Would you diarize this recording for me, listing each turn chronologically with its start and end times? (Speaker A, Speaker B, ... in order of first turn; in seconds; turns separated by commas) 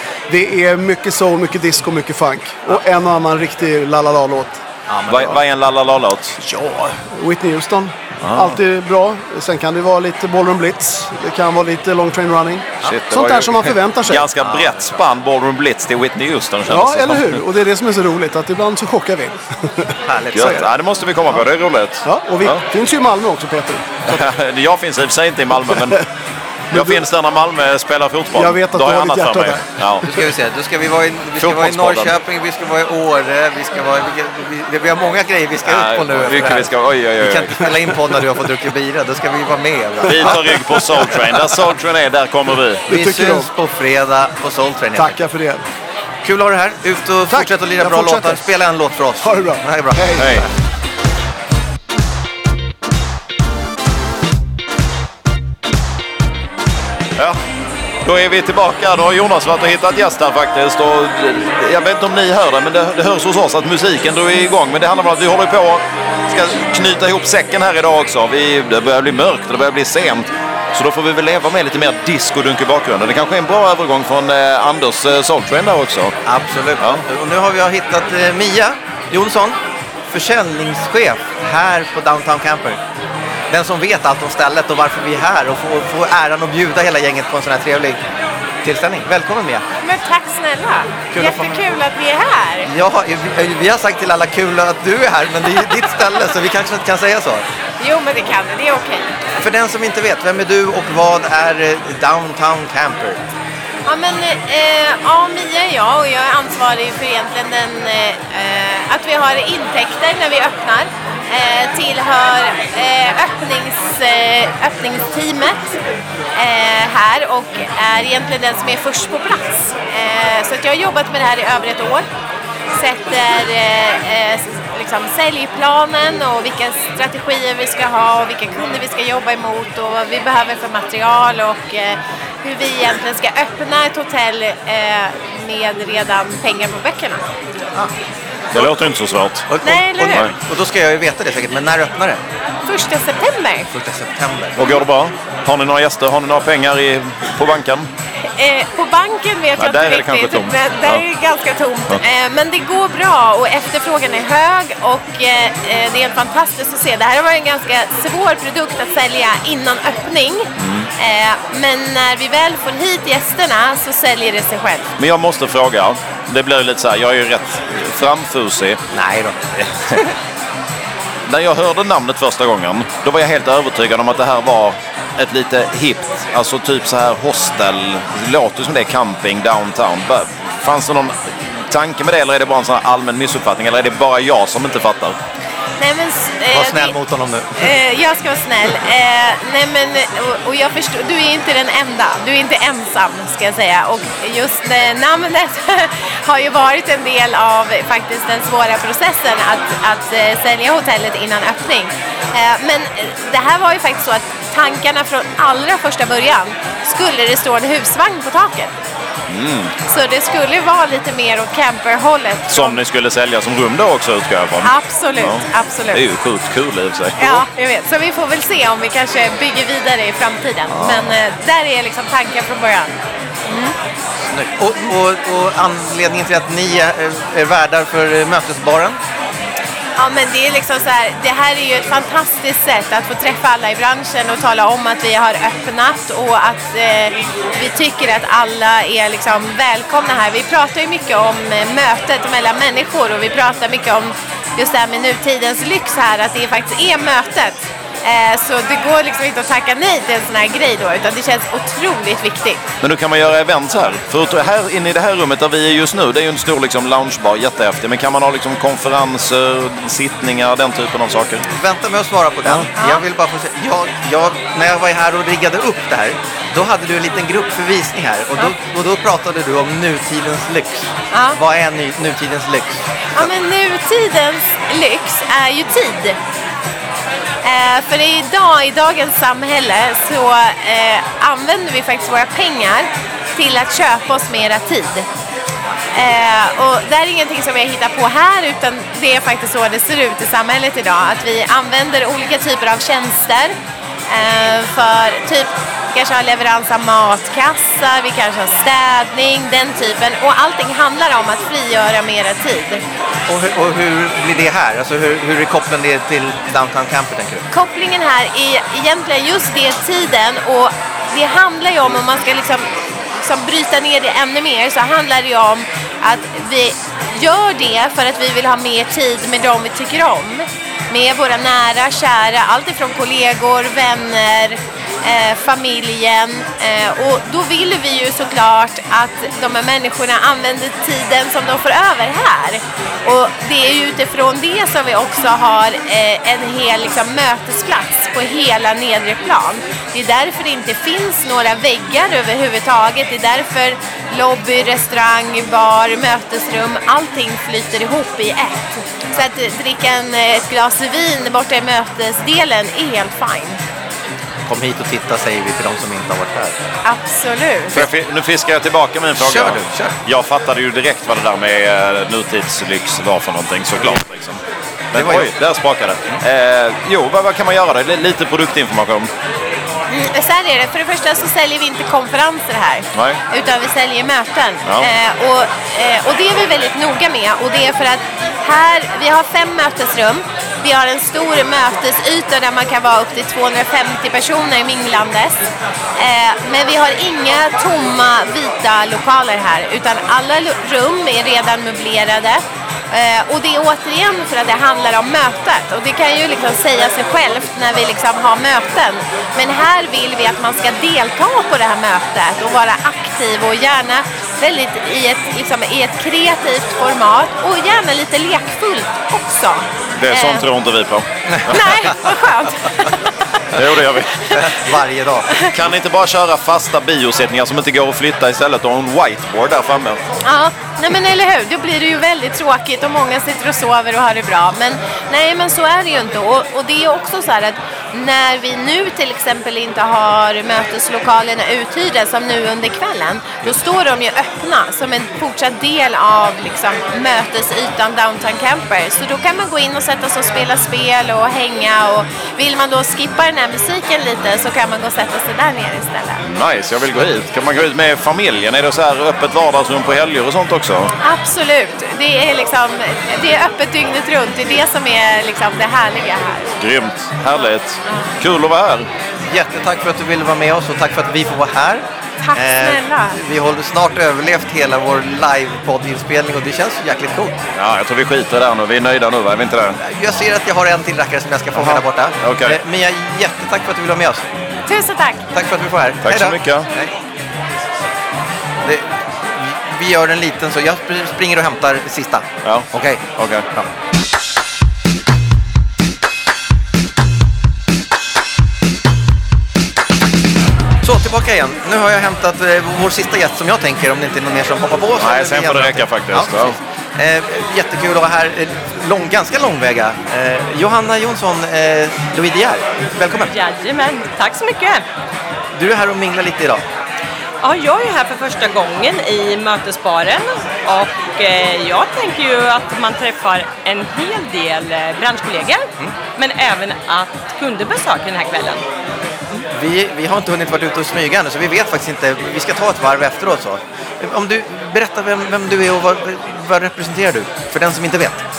Speaker A: 0.3-4.6, Speaker B: 4.9-5.4, Speaker C: 5.1-6.4, Speaker A: 6.4-14.3, Speaker C: 8.2-8.6, Speaker C: 12.8-17.4, Speaker B: 14.4-15.0, Speaker A: 16.7-20.6, Speaker B: 20.1-20.6, Speaker C: 20.3-22.6, Speaker A: 22.0-24.1, Speaker C: 24.1-26.0, Speaker A: 25.7-26.0, Speaker C: 26.7-30.1, Speaker A: 26.7-27.0, Speaker A: 28.3-29.9, Speaker B: 30.1-41.2, Speaker C: 31.4-32.1, Speaker C: 35.6-37.6, Speaker C: 40.1-42.9, Speaker A: 40.2-40.9, Speaker A: 42.9-43.5, Speaker B: 42.9-45.2, Speaker A: 45.0-45.6, Speaker B: 46.2-50.0, Speaker A: 47.3-48.5, Speaker A: 49.2-50.4, Speaker C: 50.2-50.5, Speaker C: 58.0-76.2, Speaker B: 76.3-79.6, Speaker C: 76.8-77.0, Speaker B: 80.1-82.8, Speaker B: 83.5-88.0, Speaker B: 88.6-89.7, Speaker D: 89.8-92.7, Speaker B: 91.1-91.6, Speaker B: 92.7-97.5, Speaker D: 97.8-99.1, Speaker B: 99.4-103.2, Speaker D: 103.9-115.7, Speaker D: 116.4-122.1, Speaker D: 122.7-137.2, Speaker C: 138.5-139.5, Speaker B: 139.5-142.2, Speaker D: 139.6-140.3, Speaker D: 142.7-143.7, Speaker B: 143.7-144.7, Speaker C: 144.6-147.9, Speaker D: 148.4-164.9, Speaker C: 149.6-151.0, Speaker C: 160.6-160.9, Speaker C: 165.0-168.8, Speaker B: 168.9-169.4, Speaker C: 169.6-170.0, Speaker C: 171.3-185.2, Speaker D: 185.8-187.0, Speaker B: 186.5-187.7, Speaker D: 187.6-208.7, Speaker C: 209.3-209.7, Speaker D: 209.9-212.8, Speaker C: 212.5-217.5, Speaker D: 214.6-216.1, Speaker D: 217.2-222.9, Speaker B: 220.7-221.1, Speaker D: 223.5-223.8, Speaker B: 224.3-229.0, Speaker D: 230.0-252.6, Speaker C: 252.8-261.4, Speaker B: 261.5-273.3, Speaker C: 262.4-262.7, Speaker D: 262.8-263.0, Speaker D: 271.1-271.4, Speaker D: 273.1-276.2, Speaker D: 277.4-285.1, Speaker D: 286.0-293.6, Speaker D: 294.1-302.8, Speaker B: 303.3-307.5, Speaker D: 307.5-312.7, Speaker D: 313.2-353.6, Speaker B: 354.5-356.6, Speaker D: 356.8-357.9, Speaker C: 357.7-364.4, Speaker B: 359.2-360.0, Speaker C: 364.9-369.1, Speaker B: 364.9-365.3, Speaker D: 369.9-385.4, Speaker C: 372.9-373.2, Speaker C: 374.6-374.9, Speaker D: 386.0-392.4, Speaker D: 392.9-410.5, Speaker C: 409.9-411.6, Speaker B: 411.3-412.0, Speaker D: 411.5-413.0, Speaker C: 413.5-414.5, Speaker B: 414.4-415.3, Speaker C: 415.5-420.0, Speaker D: 420.3-446.2, Speaker C: 446.2-450.9, Speaker D: 451.0-456.6, Speaker C: 456.6-458.9, Speaker D: 457.9-458.1, Speaker B: 459.3-467.4, Speaker D: 462.2-463.2, Speaker C: 467.6-469.8, Speaker B: 469.8-474.3, Speaker C: 471.5-472.6, Speaker D: 474.7-475.2, Speaker B: 475.3-476.9, Speaker C: 476.0-476.7, Speaker B: 478.6-483.7, Speaker C: 482.4-483.5, Speaker B: 490.8-503.3, Speaker C: 495.0-496.6, Speaker E: 503.3-504.8, Speaker B: 505.6-506.6, Speaker E: 507.4-518.6, Speaker B: 519.5-528.2